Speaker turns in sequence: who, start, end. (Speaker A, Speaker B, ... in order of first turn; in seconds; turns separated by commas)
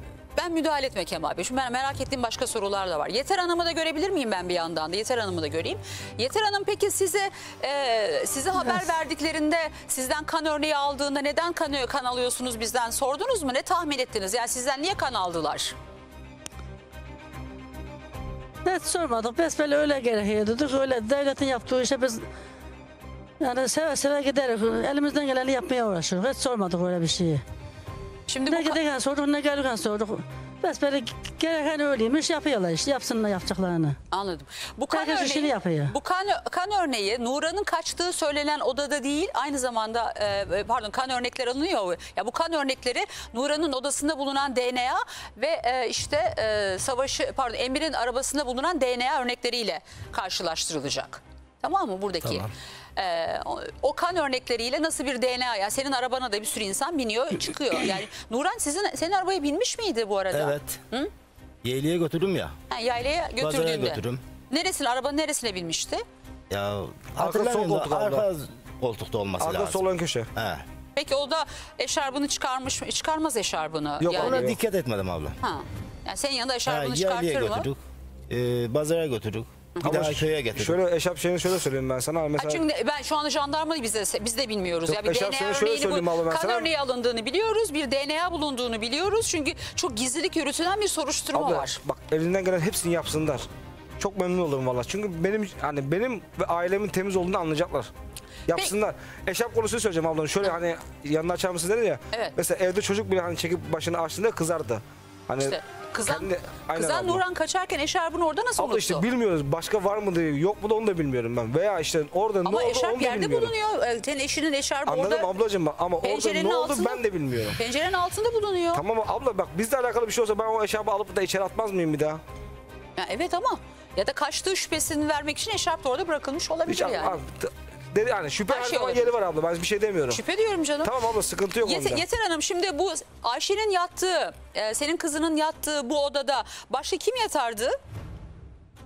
Speaker A: 0.3-15.7, Speaker B: 18.6-22.2, Speaker B: 23.4-27.4, Speaker A: 28.3-28.8, Speaker B: 28.5-34.0, Speaker A: 34.1-61.1, Speaker B: 34.9-35.9, Speaker C: 60.3-60.8, Speaker C: 61.6-62.5, Speaker A: 62.7-66.0, Speaker C: 63.4-64.2, Speaker C: 66.5-69.8, Speaker D: 67.2-68.2, Speaker D: 69.4-70.3, Speaker C: 70.3-70.7, Speaker A: 71.0-74.5, Speaker D: 74.0-74.6, Speaker C: 74.1-75.4, Speaker A: 75.4-77.7, Speaker C: 76.7-80.8, Speaker D: 79.8-82.6, Speaker A: 82.4-91.8, Speaker D: 84.9-86.7, Speaker D: 91.3-93.5, Speaker D: 94.0-97.9, Speaker D: 98.5-107.2, Speaker A: 105.4-109.0, Speaker D: 108.6-113.5, Speaker A: 112.5-115.3, Speaker D: 114.9-117.6, Speaker A: 116.0-117.0, Speaker A: 117.6-118.8, Speaker D: 118.7-122.2, Speaker A: 123.0-127.2, Speaker D: 126.7-130.2, Speaker A: 128.5-129.1, Speaker A: 130.1-130.9, Speaker D: 130.8-132.1, Speaker A: 131.6-137.8